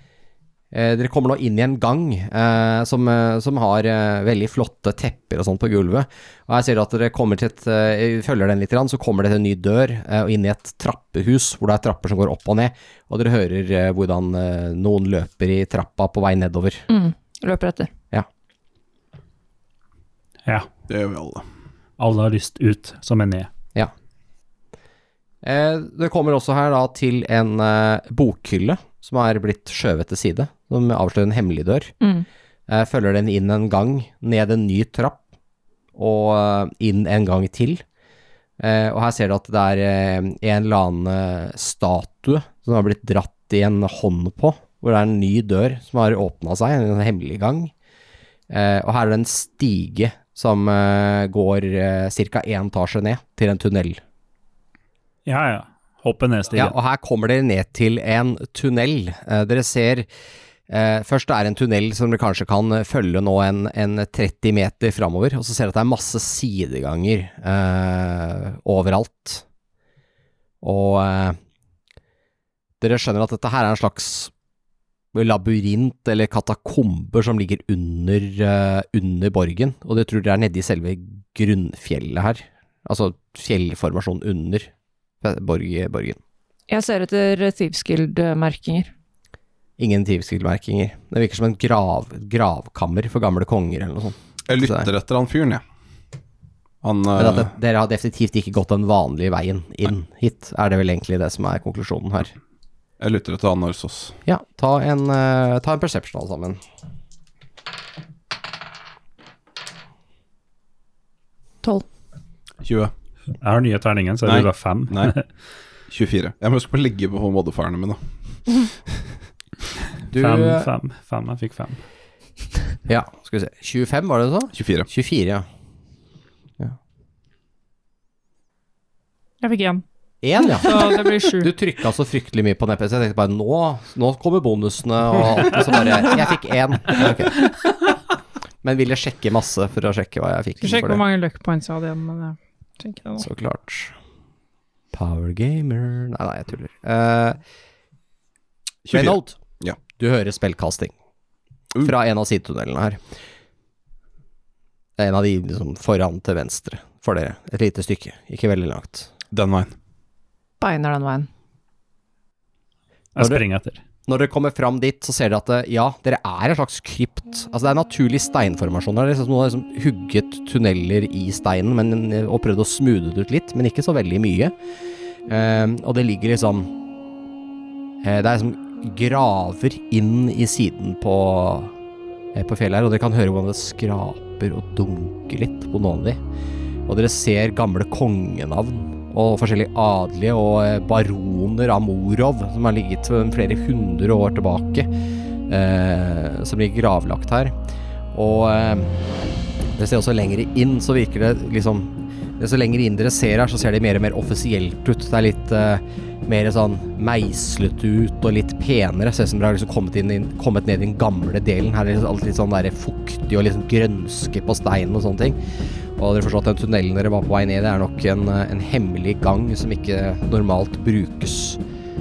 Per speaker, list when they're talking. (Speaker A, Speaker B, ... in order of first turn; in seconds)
Speaker A: 0.7-16.9, 25.4-31.9, 32.7-35.2, 36.0-37.8, 38.6-47.7, 48.5-54.0, 56.5-60.1, 60.7-69.4, 70.6-71.4, 72.8-74.3, 75.1-84.7, 85.2-86.2, 89.8-94.9, 97.2-102.3, 104.2-106.6, 120.1-120.7, 122.9-125.5, 130.2-137.5, 138.6-141.0, 143.2-143.9, 144.9-147.4, 148.9-149.4, 149.9-150.9, 151.8-153.0, 155.0-159.1, 163.2-163.4, 164.1-174.6, 175.3-176.7, 178.0-181.7, 182.3-186.2, 186.9-194.9, 195.5-197.6, 198.1-198.9, 199.8-215.4, 216.0-221.6
Speaker B: 16.9-17.9, 32.0-32.3, 86.7-88.9, 160.6-161.3
Speaker C: 20.9-21.4, 94.5-95.6, 96.8-97.5, 103.0-104.2, 112.6-112.9, 114.2-115.2, 115.9-118.0, 124.5-124.9, 148.9-149.8, 159.3-159.7
Speaker D: 22.0-23.5, 55.3-56.7, 113.4-115.2, 120.1-121.8, 163.2-163.8
Speaker E: 129.4-129.8, 130.4-131.5, 140.6-143.3